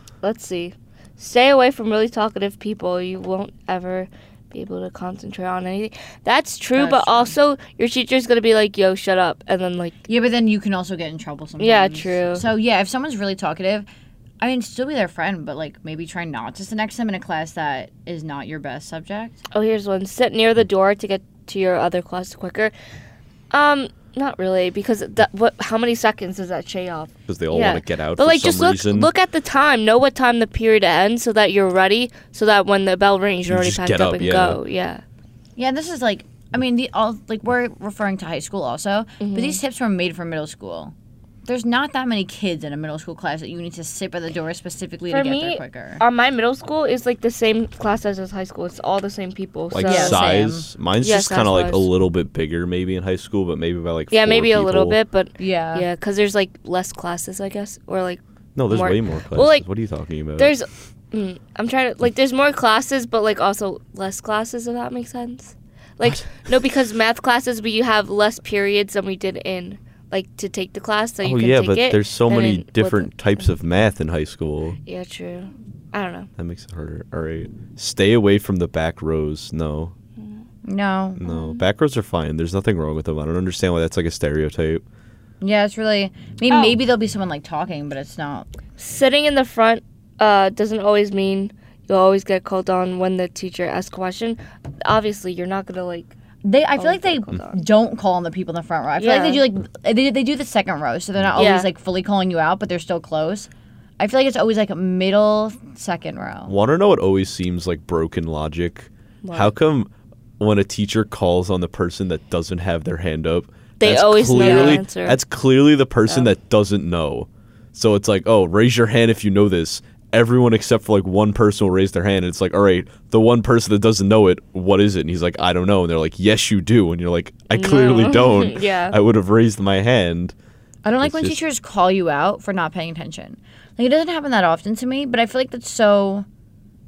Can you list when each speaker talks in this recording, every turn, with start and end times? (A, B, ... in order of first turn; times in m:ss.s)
0:00.2-0:10.0 A
0:06.8-0:07.4 B
0:10.1-0:13.9 B
0:11.6-0:12.4 A
0:14.4-0:19.4 B
0:19.5-0:22.7 A
0:23.5-0:35.0 A
0:27.3-0:29.1 C
0:33.5-0:34.6 C
0:35.6-0:40.9 B
0:39.2-0:39.6 A
0:41.5-0:46.0 B
0:45.1-0:50.4 A
0:49.7-0:55.0 C
0:49.8-0:50.7 B
0:51.0-0:51.9 A
0:54.1-0:59.7 A
0:55.4-0:55.9 B
0:58.6-1:00.6 C
1:00.4-1:13.1 A
1:11.2-1:14.8 C
1:14.9-1:16.3 A
1:16.4-1:19.9 C
1:20.2-1:20.4 A
1:20.7-1:21.2 B
1:21.2-1:24.8 C
1:21.2-1:21.6 A
1:25.4-1:28.5 B
1:26.5-1:26.8 A
1:28.8-1:36.1 A
1:36.4-1:46.6 B
1:36.8-1:37.6 A
1:39.0-1:39.4 A
1:41.4-1:41.7 A
1:46.5-2:10.4 C
1:49.2-1:49.5 A
1:53.8-1:55.2 A
1:54.4-1:54.8 B
2:07.5-2:09.0 A
2:10.8-2:16.3 B
2:11.0-2:11.4 C